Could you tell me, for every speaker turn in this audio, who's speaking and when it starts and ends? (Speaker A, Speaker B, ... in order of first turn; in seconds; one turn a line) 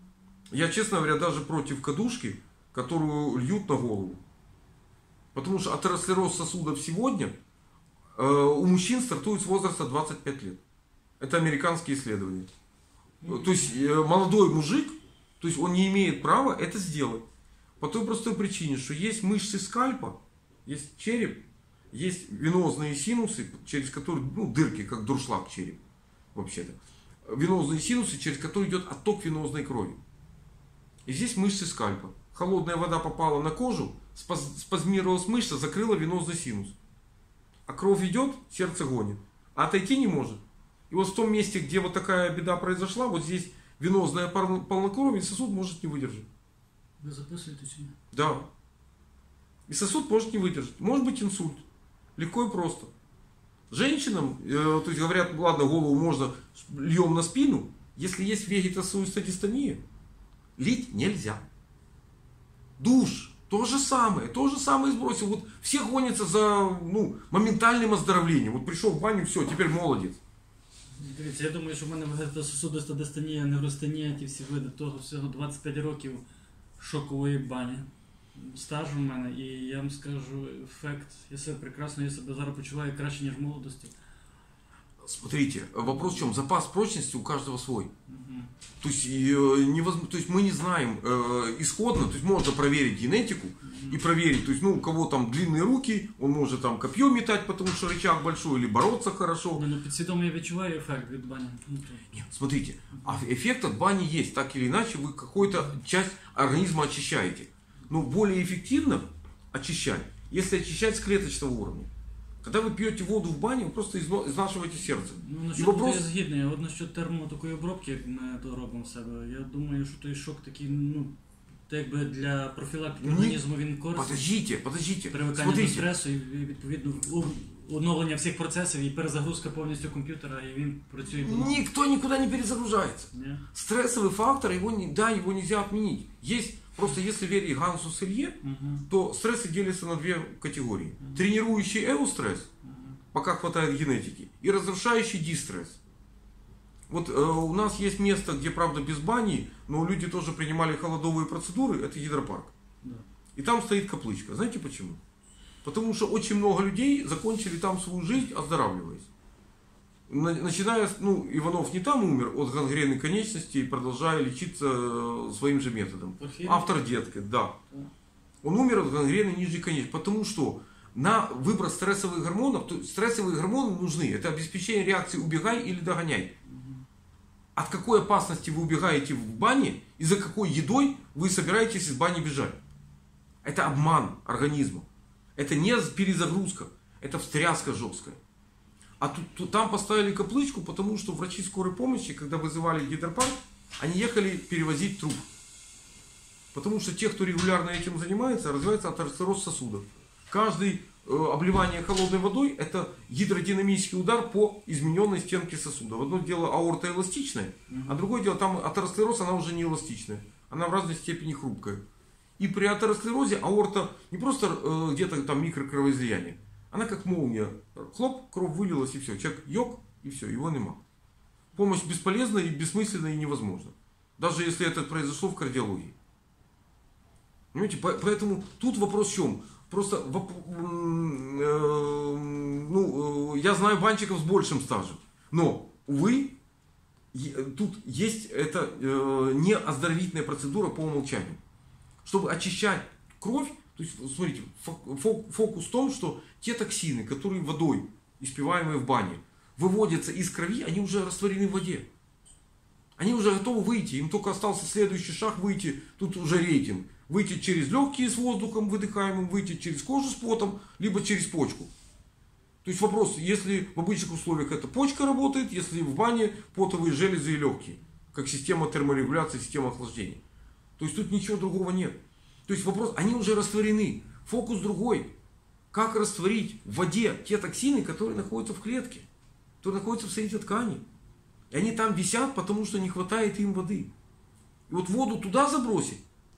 Speaker A: 0.5-4.2
Speaker A: 5.3-7.3
Speaker A: 8.2-10.6
Speaker A: 11.2-12.5
Speaker B: 13.2-13.7
Speaker A: 13.3-17.2
Speaker A: 17.8-25.8
Speaker A: 26.3-30.0
Speaker A: 31.1-36.7
Speaker A: 37.7-46.3
Speaker B: 47.0-47.9
Speaker A: 48.1-48.5
Speaker A: 49.7-51.6
Speaker A: 52.2-52.9
Speaker A: 53.7-59.8
Speaker A: 60.6-61.4
Speaker A: 62.8-70.2
Speaker B: 71.0-76.2
Speaker B: 76.8-84.0
Speaker A: 85.0-87.9
Speaker B: 85.8-86.3
Speaker B: 88.1-88.5
Speaker A: 88.8-99.6
Speaker B: 93.6-94.0
Speaker B: 99.5-102.1
Speaker A: 102.1-111.9
Speaker B: 102.9-103.2
Speaker A: 112.4-116.0
Speaker B: 115.1-121.1
Speaker B: 121.7-124.3
Speaker A: 123.0-123.4
Speaker A: 123.9-125.9
Speaker B: 125.1-131.6
Speaker A: 131.2-142.5
Speaker B: 133.1-133.4
Speaker B: 138.4-138.9
Speaker B: 142.6-143.0
Speaker A: 143.1-145.8
Speaker A: 146.9-152.5
Speaker A: 153.3-155.0
Speaker A: 155.6-159.1
Speaker A: 160.1-167.6
Speaker B: 166.2-166.9
Speaker A: 168.4-176.3
Speaker B: 176.4-176.8
Speaker A: 177.6-182.6
Speaker A: 183.4-188.2
Speaker A: 189.0-195.3
Speaker A: 196.5-211.8
Speaker B: 207.7-208.0
Speaker A: 212.4-220.8
Speaker A: 221.5-225.9
Speaker A: 227.5-236.3
Speaker A: 237.1-241.4
Speaker A: 242.0-251.8
Speaker A: 253.0-261.7
Speaker A: 262.6-270.2
Speaker A: 270.8-271.9
Speaker A: 272.5-275.1
Speaker A: 275.7-279.1
Speaker A: 279.6-280.8
Speaker A: 281.5-283.9
Speaker A: 284.7-286.0